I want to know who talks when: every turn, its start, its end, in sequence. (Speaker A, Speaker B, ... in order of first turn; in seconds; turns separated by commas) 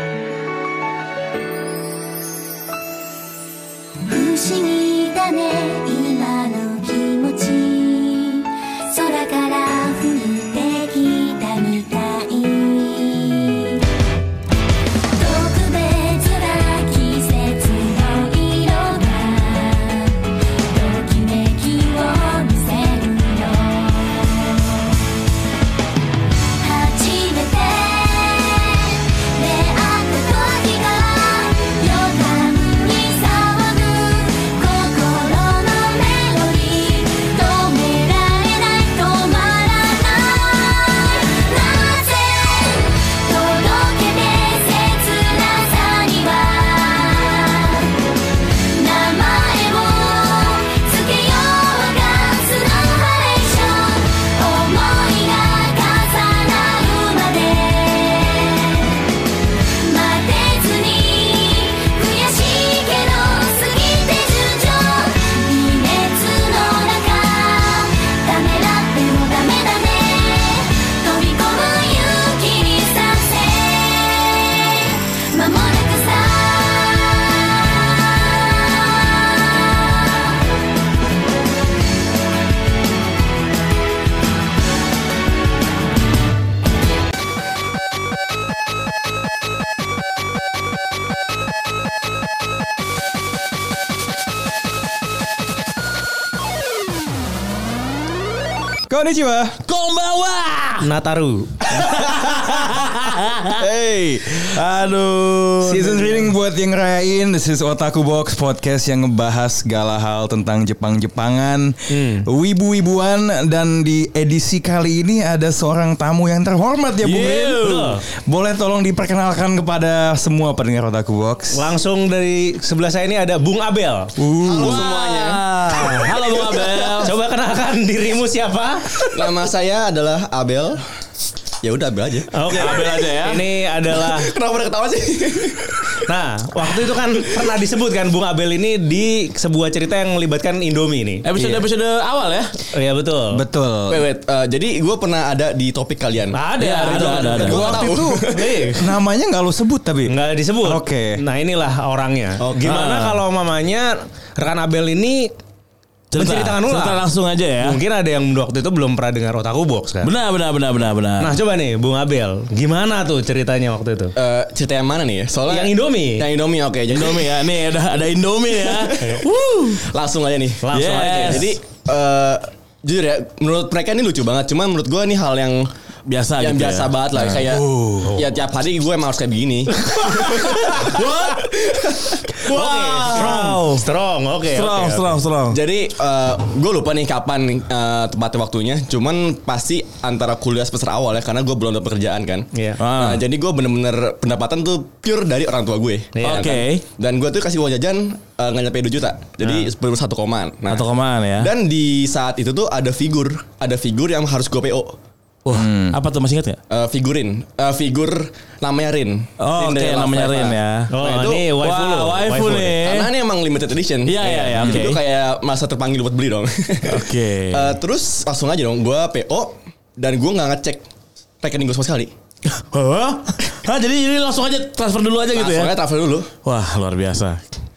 Speaker A: 4.1-13.9, Speaker A: 15.1-25.0, Speaker A: 26.6-80.4, Speaker B: 98.9-99.6, Speaker C: 99.7-100.8, Speaker D: 100.8-101.8, Speaker C: 101.7-103.6, Speaker B: 103.6-121.6, Speaker D: 105.8-106.1, Speaker D: 111.9-112.3, Speaker C: 117.0-118.0, Speaker D: 117.6-118.0, Speaker D: 121.5-124.2, Speaker B: 124.2-124.8, Speaker E: 124.4-127.0, Speaker C: 124.6-127.1, Speaker D: 127.0-129.2, Speaker E: 129.1-130.8, Speaker E: 131.6-132.8, Speaker D: 132.3-134.3, Speaker C: 132.5-133.5, Speaker E: 134.0-136.0, Speaker D: 136.1-141.6, Speaker C: 141.2-142.5, Speaker D: 142.7-143.4, Speaker B: 143.3-144.1, Speaker E: 143.9-148.7, Speaker D: 146.3-148.8, Speaker C: 146.6-147.8, Speaker B: 147.4-151.2, Speaker D: 150.1-155.3, Speaker C: 152.6-153.2, Speaker D: 156.1-157.0, Speaker C: 156.1-157.8, Speaker D: 157.6-160.1, Speaker C: 160.0-161.3, Speaker D: 161.2-164.2, Speaker E: 164.2-167.4, Speaker D: 165.5-166.3, Speaker C: 166.9-169.3, Speaker E: 168.7-175.7, Speaker D: 170.6-171.5, Speaker C: 170.7-171.6, Speaker C: 176.1-177.4, Speaker E: 176.4-182.4, Speaker B: 177.3-178.2, Speaker C: 180.1-181.5, Speaker D: 182.4-185.2, Speaker C: 182.4-183.8, Speaker C: 184.5-185.6, Speaker E: 185.5-200.9, Speaker D: 192.5-192.8, Speaker C: 192.8-193.2, Speaker D: 196.2-196.5, Speaker C: 196.2-196.8, Speaker C: 200.7-201.5, Speaker E: 201.4-205.0, Speaker C: 205.5-206.6, Speaker B: 205.5-206.0, Speaker E: 206.7-211.5, Speaker C: 209.4-210.9, Speaker D: 210.9-212.8, Speaker C: 211.6-213.1, Speaker E: 212.7-220.8, Speaker C: 214.1-215.0, Speaker D: 214.2-214.5, Speaker C: 216.8-217.8, Speaker E: 221.4-222.1, Speaker C: 222.6-225.8, Speaker E: 225.3-226.3, Speaker C: 226.4-227.4